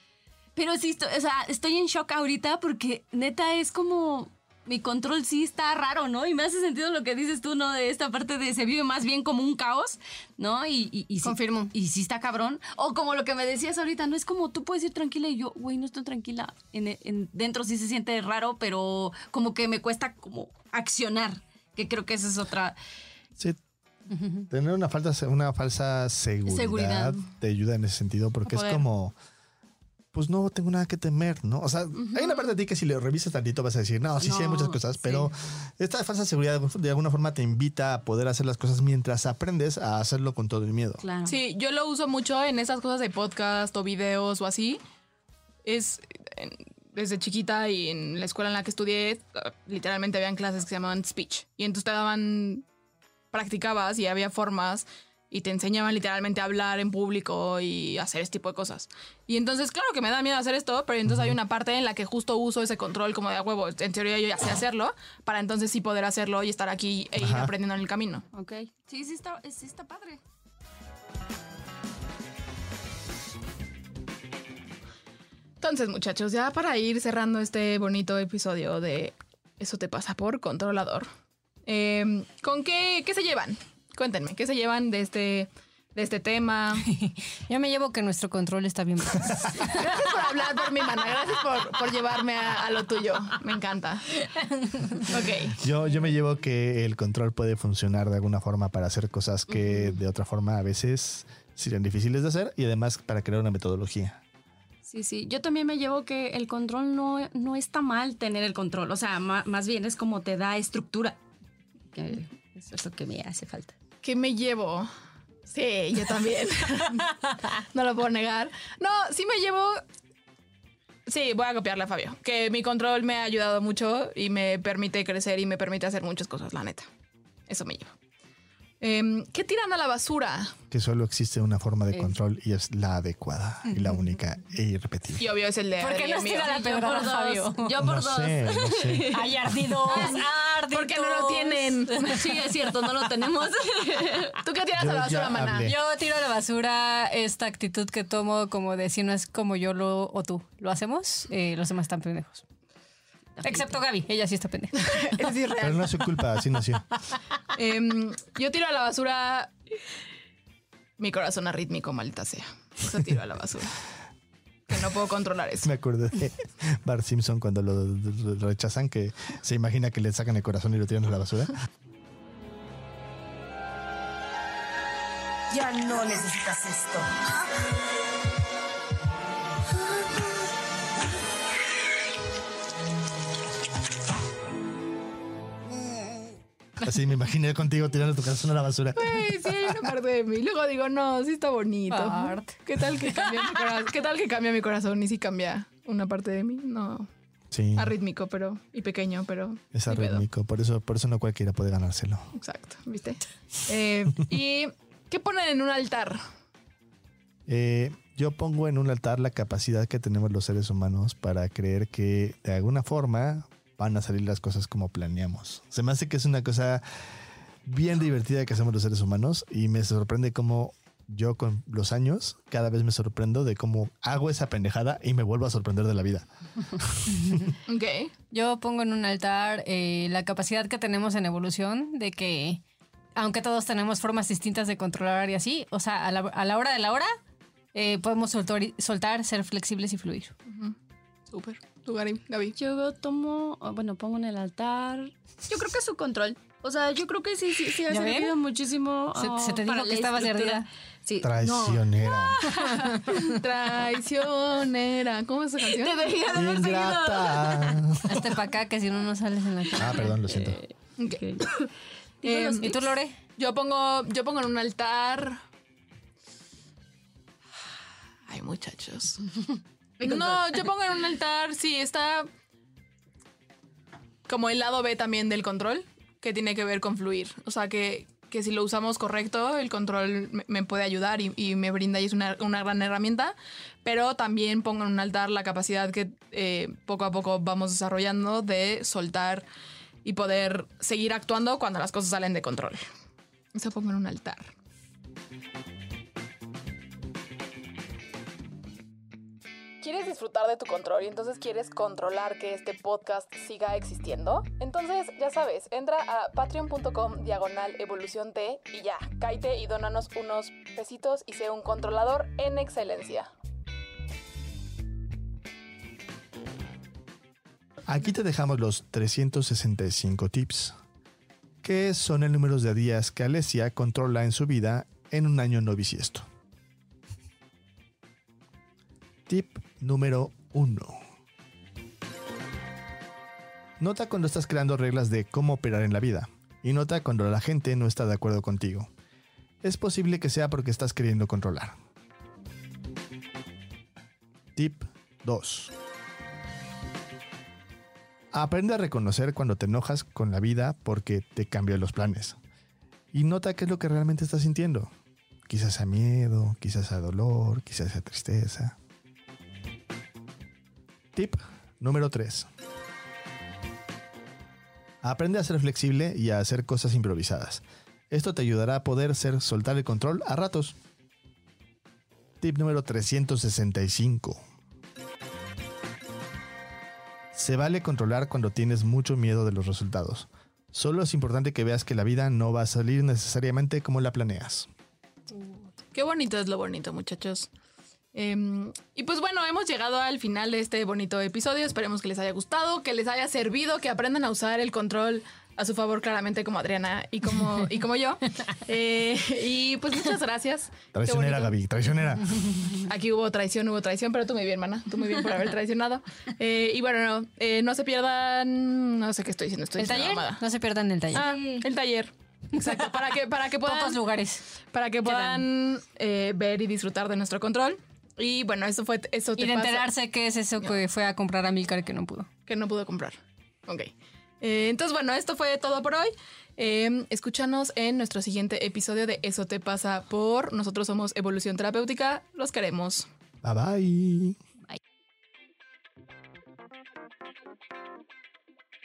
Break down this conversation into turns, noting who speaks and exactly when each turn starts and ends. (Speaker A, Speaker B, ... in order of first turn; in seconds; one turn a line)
Speaker A: 0.6-22.8
Speaker B: 11.2-11.7
Speaker B: 24.1-24.5
Speaker C: 24.5-29.1
Speaker A: 26.4-27.3
Speaker A: 28.4-28.8
Speaker C: 30.1-41.0
Speaker A: 31.9-32.5
Speaker A: 34.2-35.3
Speaker A: 41.0-41.4
Speaker D: 41.2-44.8
Speaker D: 45.6-52.6
Speaker D: 53.3-68.2
Speaker C: 61.0-61.4
Speaker C: 67.2-67.5
Speaker A: 68.3-70.2
Speaker D: 75.6-81.1
Speaker D: 81.7-86.9
Speaker B: 86.9-89.9
Speaker D: 89.6-94.2
Speaker B: 94.4-95.1
Speaker D: 95.1-95.6
Speaker C: 95.5-104.2
Speaker A: 104.8-111.2
Speaker A: 111.9-113.7
Speaker D: 114.0-114.9
Speaker D: 115.5-119.8
Speaker D: 121.0-126.9
Speaker D: 127.5-127.9
Speaker D: 128.8-130.5
Speaker C: 130.7-135.2
Speaker D: 135.2-136.7
Speaker B: 135.8-137.7
Speaker A: 136.4-139.3
Speaker C: 137.8-139.2
Speaker B: 139.1-142.2
Speaker A: 139.8-140.2
Speaker D: 139.9-142.4
Speaker A: 142.1-144.4
Speaker D: 144.4-145.7
Speaker C: 144.8-145.7
Speaker B: 145.6-152.4
Speaker A: 153.4-153.8
Speaker B: 153.4-155.1
Speaker D: 154.8-155.9
Speaker C: 155.6-156.8
Speaker D: 157.5-159.5
Speaker D: 161.0-163.8
Speaker D: 164.7-165.7
Speaker C: 165.6-171.5
Speaker B: 175.6-177.0
Speaker C: 186.8-189.7
Speaker D: 188.9-197.1
Speaker B: 191.9-193.5
Speaker C: 197.5-197.9
Speaker D: 197.7-200.2
Speaker C: 199.7-202.3
Speaker D: 202.3-206.2
Speaker C: 207.5-216.8
Speaker C: 217.6-227.5
Speaker D: 227.7-228.1
Speaker B: 228.3-232.6
Speaker B: 233.2-237.1
Speaker B: 237.7-240.3
Speaker D: 240.5-240.8
Speaker D: 241.3-242.5
Speaker A: 242.6-253.1
Speaker B: 247.9-248.3
Speaker B: 249.2-250.7
Speaker C: 251.2-252.4
Speaker B: 252.5-253.3
Speaker D: 253.1-256.0
Speaker A: 255.6-258.0
Speaker C: 256.3-258.2
Speaker B: 258.1-260.7
Speaker C: 259.7-260.6
Speaker D: 261.0-261.7
Speaker D: 262.2-265.4
Speaker A: 262.2-262.7
Speaker B: 262.6-263.1
Speaker D: 268.3-269.2
Speaker D: 270.0-272.3
Speaker A: 270.0-270.6
Speaker D: 274.3-289.4
Speaker D: 290.0-292.8
Speaker D: 293.5-294.5
Speaker D: 299.8-313.3
Speaker C: 317.9-320.8
Speaker C: 321.6-326.3
Speaker C: 329.3-331.0
Speaker C: 333.8-338.9
Speaker C: 339.6-341.8
Speaker C: 344.5-345.7
Speaker C: 348.3-352.4
Speaker C: 353.1-354.9
Speaker C: 355.4-358.8
Speaker C: 361.1-362.5
Speaker C: 365.0-370.8
Speaker C: 372.4-374.4
Speaker C: 377.3-384.7
Speaker D: 385.9-387.5
Speaker D: 388.1-401.5
Speaker C: 400.9-402.7
Speaker D: 402.8-410.4
Speaker B: 409.8-411.6
Speaker D: 411.1-414.0
Speaker B: 412.6-412.9
Speaker B: 413.6-414.4
Speaker D: 414.7-419.9
Speaker B: 415.0-415.5
Speaker B: 419.4-422.3
Speaker D: 422.4-433.1
Speaker C: 433.4-434.4